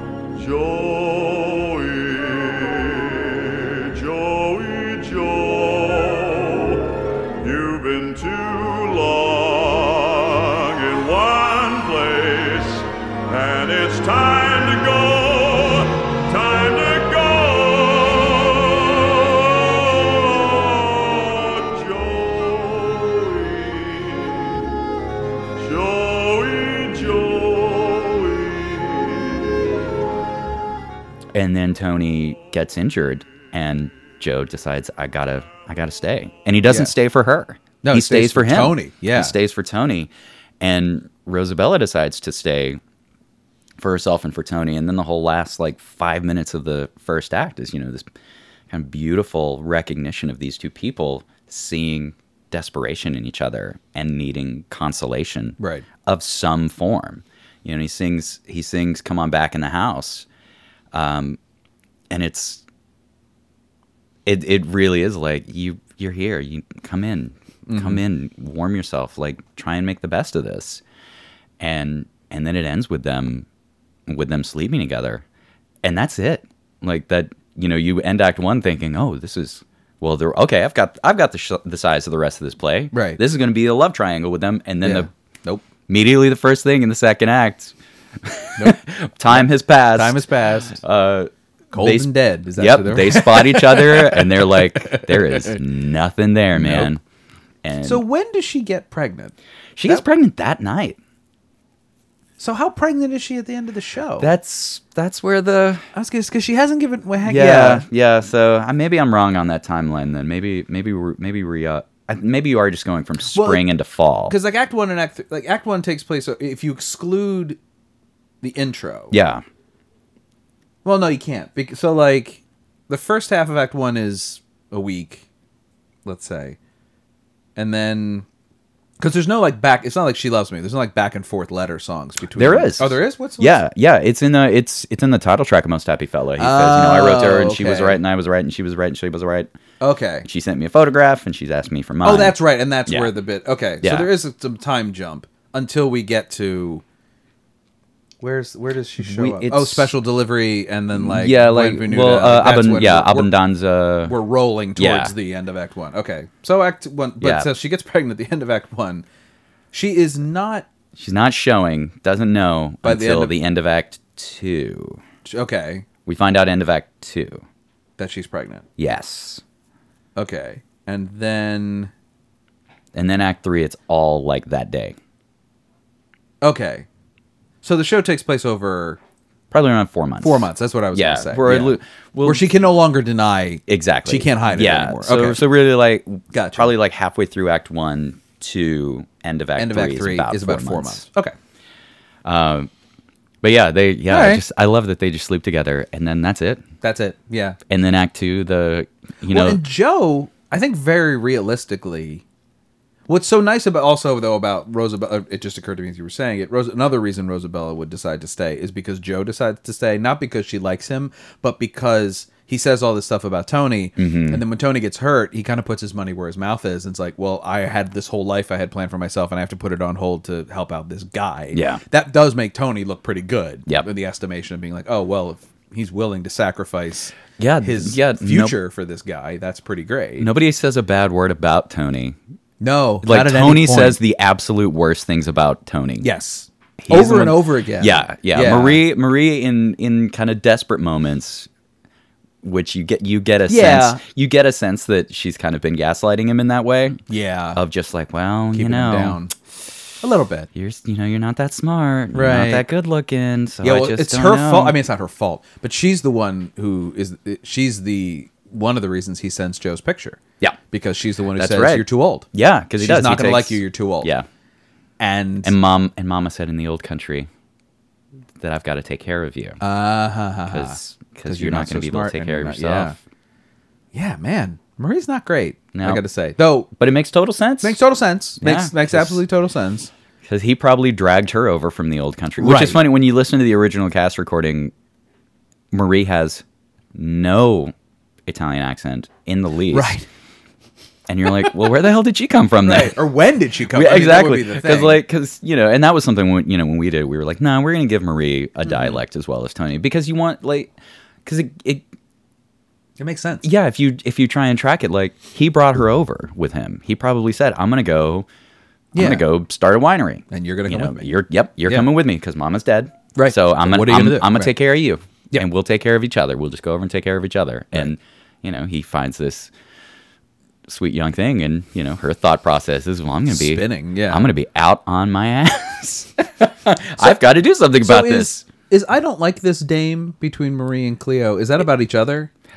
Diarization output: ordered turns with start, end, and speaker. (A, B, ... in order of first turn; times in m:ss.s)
0:00.4-0:24.6 A
0:25.6-0:29.5 A
0:31.3-0:42.8 B
0:36.6-0:36.9 C
0:37.8-0:39.4 C
0:43.8-0:48.1 B
0:48.7-1:00.2 B
0:55.6-0:55.8 C
1:00.9-1:01.4 B
1:02.1-1:02.6 B
1:04.2-1:10.8 B
1:07.7-1:08.0 C
1:11.6-1:13.5 B
1:14.1-1:15.2 B
1:15.8-1:25.1 B
1:22.9-1:23.2 C
1:24.8-1:25.6 C
1:25.9-1:37.0 B
1:29.3-1:30.8 C
1:31.7-1:35.6 C
1:36.5-1:36.9 C
1:37.6-1:38.0 B
1:37.8-1:39.4 C
1:39.8-1:41.0 B
1:42.4-1:44.3 C
1:44.2-1:45.9 B
1:45.9-1:47.8 C
1:47.2-1:54.4 B
1:53.3-1:53.6 C
1:54.3-1:57.6 C
1:58.4-1:59.1 C
1:59.1-1:59.4 B
2:00.8-2:05.2 C
2:06.0-2:06.6 C
2:07.6-2:08.2 C
2:09.0-2:13.6 C
2:12.4-2:19.5 B
2:16.4-2:18.0 C
2:19.8-2:20.2 C
2:20.2-2:23.1 B
2:22.0-2:26.8 C
2:23.8-2:24.1 B
2:28.2-2:33.3 C
2:29.0-2:29.9 B
2:30.9-2:34.2 B
2:34.1-2:39.0 C
2:34.8-2:35.1 B
2:37.2-2:37.5 B
2:39.7-2:40.6 C
2:41.0-2:45.0 B
2:42.8-2:43.4 C
2:45.2-2:45.8 C
2:46.1-2:47.4 B
2:48.0-2:48.6 C
2:48.8-2:49.4 B
2:50.2-2:51.9 C
2:52.9-2:55.0 B
2:56.4-2:56.9 C
2:57.6-2:59.0 C
2:59.5-3:02.4 B
3:00.2-3:05.4 C
3:03.7-3:11.0 B
3:06.3-3:06.7 C
3:09.6-3:11.3 C
3:12.2-3:12.7 B
3:13.4-3:16.6 B
3:14.1-3:14.4 C
3:16.8-3:17.6 C
3:17.7-3:19.6 B
3:19.3-3:22.2 C
3:23.1-3:50.3 C
3:34.0-3:34.4 B
3:41.5-3:41.8 B
3:47.4-3:48.6 B
3:50.2-3:52.2 B
3:52.6-3:54.0 C
3:53.0-3:56.1 B
3:56.0-3:58.8 C
3:56.8-4:01.5 B
4:02.4-4:07.0 B
4:03.5-4:04.0 C
4:07.1-4:07.6 C
4:07.5-4:09.2 B
4:08.5-4:09.3 C
4:10.0-4:10.5 C
4:10.6-4:14.8 B
4:12.1-4:12.6 C
4:13.6-4:20.2 C
4:20.7-4:22.2 C
4:21.4-4:24.2 B
4:22.8-4:24.1 C
4:25.0-4:25.5 C
4:25.4-4:27.3 B
4:28.4-4:29.6 B
4:29.6-4:33.0 C
4:30.5-4:33.0 B
4:33.9-4:36.7 C
4:35.7-4:36.0 B
4:36.8-4:37.8 B
4:37.6-4:39.9 C
4:38.4-4:39.2 B
4:40.2-4:44.7 B
4:42.4-4:42.8 C
4:45.7-4:46.4 B
4:46.9-4:47.7 B
4:48.2-4:50.0 B
4:49.7-4:50.1 C
4:51.1-4:53.0 B
4:52.6-4:55.0 C
4:53.7-5:00.7 B
4:58.6-4:59.0 C
5:01.2-5:01.9 B
5:03.0-5:03.4 C
5:03.4-5:08.3 B
5:08.9-5:09.2 C
5:08.9-5:19.5 B
5:10.3-5:11.9 C
5:13.1-5:14.6 C
5:20.7-5:28.4 B
5:23.3-5:24.3 C
5:27.8-5:32.3 C